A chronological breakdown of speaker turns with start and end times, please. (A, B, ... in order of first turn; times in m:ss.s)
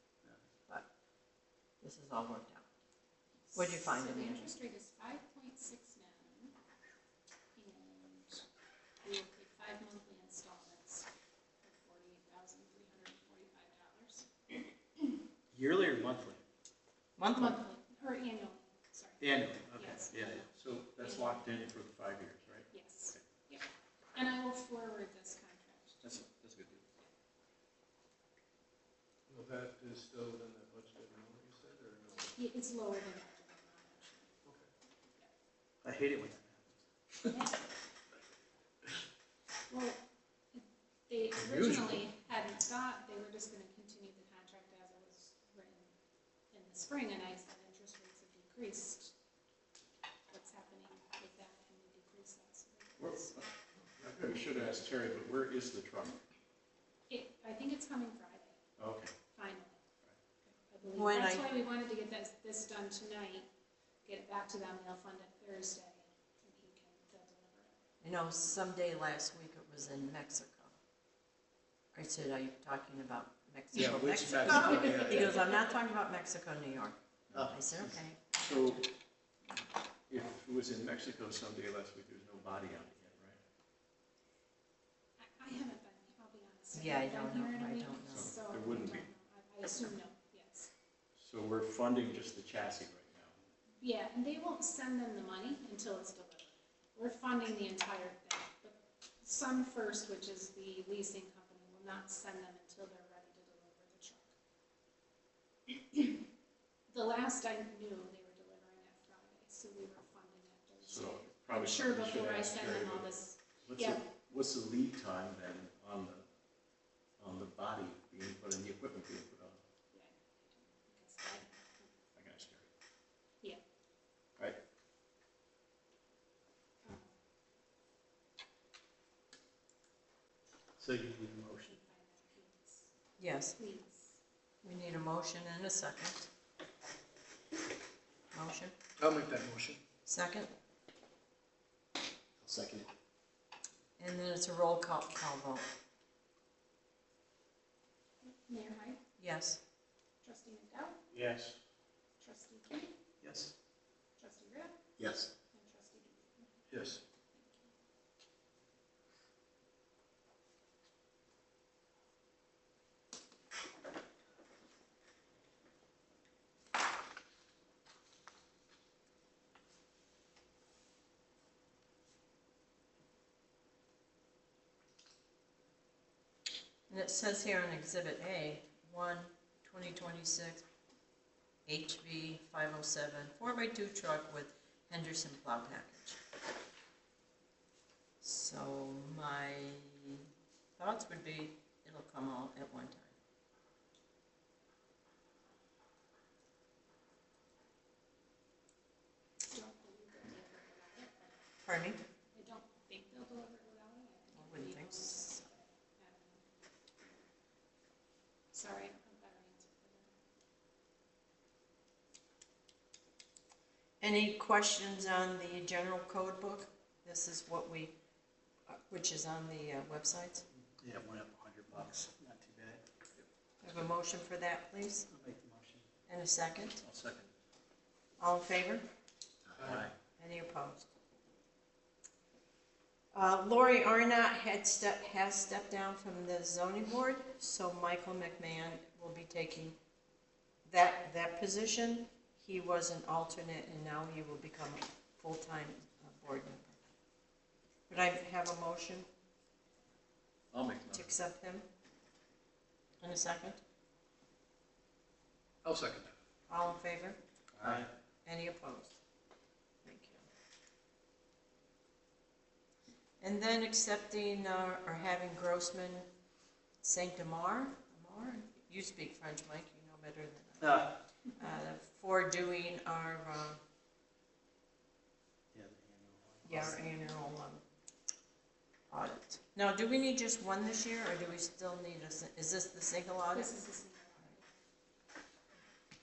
0:01.8-0:02.7 A
0:03.5-0:06.6 B
0:03.5-0:04.5 A
0:07.5-0:08.4 B
0:09.0-0:11.1 B
0:11.6-0:15.1 B
0:15.5-0:16.4 C
0:17.2-0:17.6 A
0:17.3-0:21.4 B
0:19.2-0:20.5 C
0:20.5-0:23.2 D
0:22.7-0:26.2 B
0:26.0-0:26.8 C
0:29.3-0:32.3 E
0:32.3-0:34.3 B
0:35.8-0:37.3 C
0:37.2-0:37.7 B
0:39.7-0:45.9 B
0:41.4-0:41.9 C
0:46.5-0:49.1 B
0:50.3-0:53.4 B
0:53.0-0:53.5 D
0:54.0-0:54.3 E
0:54.0-0:56.2 D
0:57.1-0:58.6 B
0:58.8-0:59.1 D
0:59.3-0:59.8 B
1:00.4-1:03.5 B
1:00.9-1:01.5 A
1:04.0-1:07.8 B
1:08.0-1:10.7 A
1:11.9-1:18.9 A
1:13.8-1:15.3 C
1:14.4-1:15.7 B
1:17.3-1:17.6 D
1:17.3-1:17.9 C
1:18.4-1:18.9 D
1:20.1-1:23.4 D
1:25.2-1:30.7 B
1:26.7-1:28.3 A
1:28.1-1:29.1 D
1:31.2-1:33.3 D
1:33.8-1:44.3 B
1:45.7-1:46.2 B
1:46.9-1:54.1 B
1:50.8-1:53.1 D
1:53.6-1:56.2 D
1:57.2-1:59.6 D
1:59.9-2:02.0 B
2:02.2-2:02.7 D
2:06.8-2:07.1 B
2:10.8-2:11.8 C
2:11.5-2:12.9 B
2:13.2-2:13.5 A
2:13.5-2:14.2 B
2:14.6-2:16.3 A
2:18.3-2:18.7 A
2:19.0-2:19.8 C
2:20.0-2:20.5 A
2:22.4-2:22.8 D
2:24.0-2:25.7 A
2:28.2-2:29.0 B
2:29.2-2:29.6 A
2:30.2-2:31.0 B
2:31.1-2:31.6 D
2:32.2-2:32.9 B
2:33.2-2:33.5 C
2:34.2-2:34.8 B
2:35.5-2:37.7 B
2:56.9-3:00.6 A
3:01.6-3:06.2 A
3:08.2-3:10.2 A
3:10.8-3:13.1 A
3:19.4-3:21.4 B
3:21.6-3:22.0 A
3:22.3-3:26.4 B
3:24.3-3:25.4 A
3:27.0-3:27.2 B
3:28.5-3:30.1 B
3:34.0-3:37.9 A
3:38.7-3:40.4 A
3:40.8-3:42.8 C
3:43.6-3:45.1 A
3:45.1-3:45.8 C
3:46.1-3:46.8 A
3:46.8-3:47.3 D
3:48.2-3:48.8 A
3:49.5-3:49.9 D
3:49.6-3:49.8 E
3:50.2-3:50.9 A
3:53.1-3:59.8 A
4:00.6-4:06.8 A
4:07.9-4:09.1 A
4:10.5-4:11.1 D
4:10.9-4:11.6 A
4:13.0-4:13.6 A
4:15.6-4:16.0 E
4:16.5-4:17.2 A
4:17.6-4:17.9 C
4:17.6-4:17.8 D
4:18.2-4:19.0 A
4:19.8-4:20.2 A
4:23.2-4:26.1 A
4:26.8-4:33.6 A
4:30.6-4:31.0 C
4:35.5-4:36.9 C
4:36.4-4:37.6 A
4:38.9-4:43.6 A
4:43.3-4:44.5 B